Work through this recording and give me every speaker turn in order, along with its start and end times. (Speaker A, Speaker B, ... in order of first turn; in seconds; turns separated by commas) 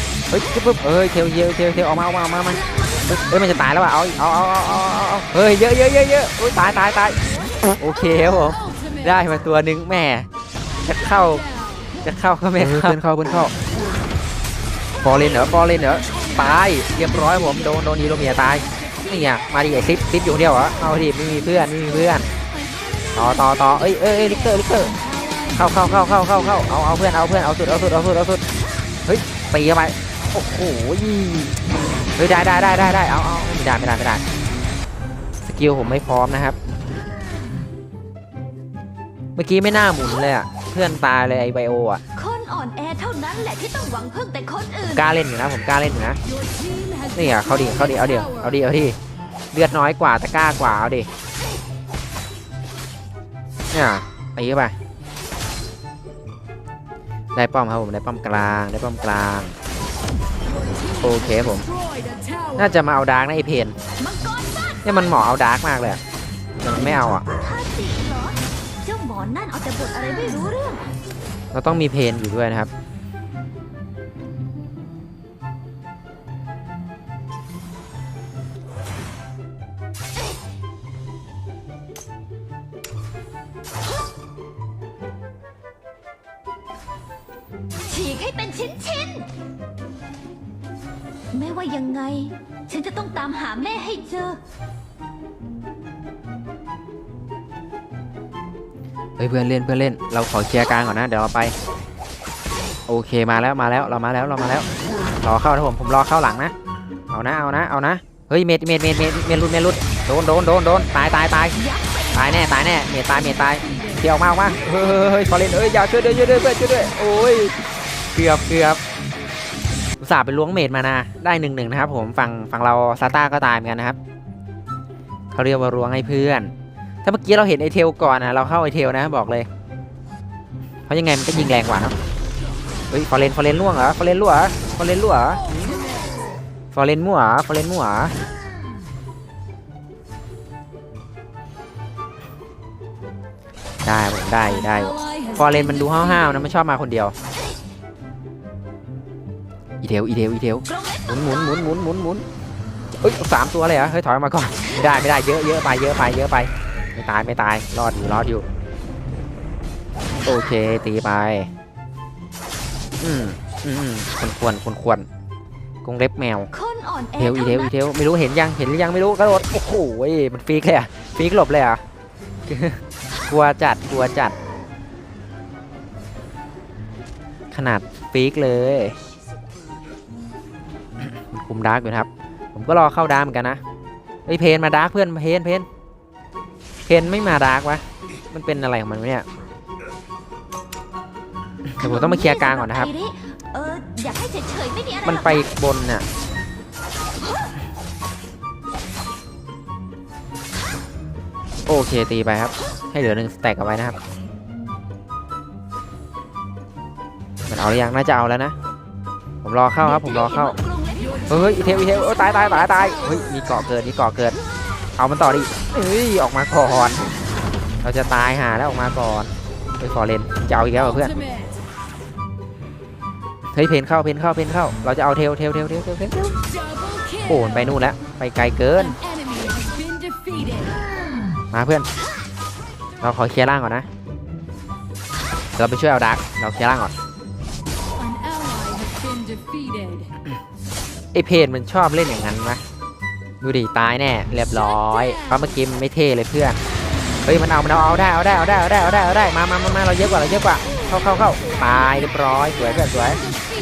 Speaker A: 0.3-7.2, Speaker B: 2.5-3.6, Speaker A: 7.7-10.3, Speaker A: 10.9-11.4, Speaker A: 12.0-13.5, Speaker A: 15.0-22.3, Speaker A: 23.1-25.0, Speaker A: 25.5-28.4, Speaker A: 29.1-31.6, Speaker A: 32.1-34.2, Speaker A: 35.4-36.6, Speaker A: 39.4-42.0, Speaker B: 42.1-45.1, Speaker A: 44.9-46.2, Speaker C: 46.5-47.1, Speaker A: 47.1-49.0, Speaker A: 49.5-51.1, Speaker A: 53.7-54.8, Speaker A: 57.3-59.5, Speaker A: 61.0-61.7, Speaker A: 62.6-63.8, Speaker B: 64.0-64.4, Speaker A: 64.8-66.0, Speaker A: 66.6-67.2, Speaker B: 67.3-70.8, Speaker A: 71.5-72.7, Speaker B: 87.9-89.3, Speaker B: 91.3-94.4, Speaker A: 99.2-101.5, Speaker A: 102.9-104.7, Speaker A: 105.2-106.5, Speaker A: 107.1-111.5, Speaker B: 111.5-112.9, Speaker A: 112.1-117.6, Speaker A: 118.1-118.8, Speaker A: 120.0-124.0, Speaker A: 125.3-126.5, Speaker A: 127.0-129.5, Speaker A: 130.9-132.0, Speaker A: 132.9-135.5, Speaker A: 136.7-138.1, Speaker A: 143.8-147.1, Speaker A: 149.8-152.2, Speaker B: 150.7-151.5, Speaker A: 153.0-158.5, Speaker A: 160.2-161.5, Speaker A: 163.0-165.1, Speaker A: 165.8-166.5, Speaker B: 166.5-167.7, Speaker A: 167.2-171.8, Speaker A: 172.5-174.3, Speaker A: 177.5-179.0, Speaker A: 181.1-183.6, Speaker A: 184.2-185.7, Speaker A: 186.9-189.2, Speaker A: 191.7-192.9, Speaker B: 191.8-195.5, Speaker A: 195.0-196.0, Speaker A: 201.7-204.0, Speaker A: 207.5-208.5, Speaker A: 209.4-210.6, Speaker B: 209.8-212.9, Speaker A: 211.3-214.4, Speaker A: 215.0-217.0, Speaker A: 217.8-221.2, Speaker A: 223.5-226.4, Speaker A: 227.2-229.0, Speaker C: 229.3-230.6, Speaker A: 231.5-231.9, Speaker A: 233.0-233.9, Speaker A: 235.6-236.9, Speaker C: 238.0-240.1, Speaker A: 241.1-242.6, Speaker A: 243.4-246.6, Speaker A: 247.2-253.2, Speaker B: 250.8-252.5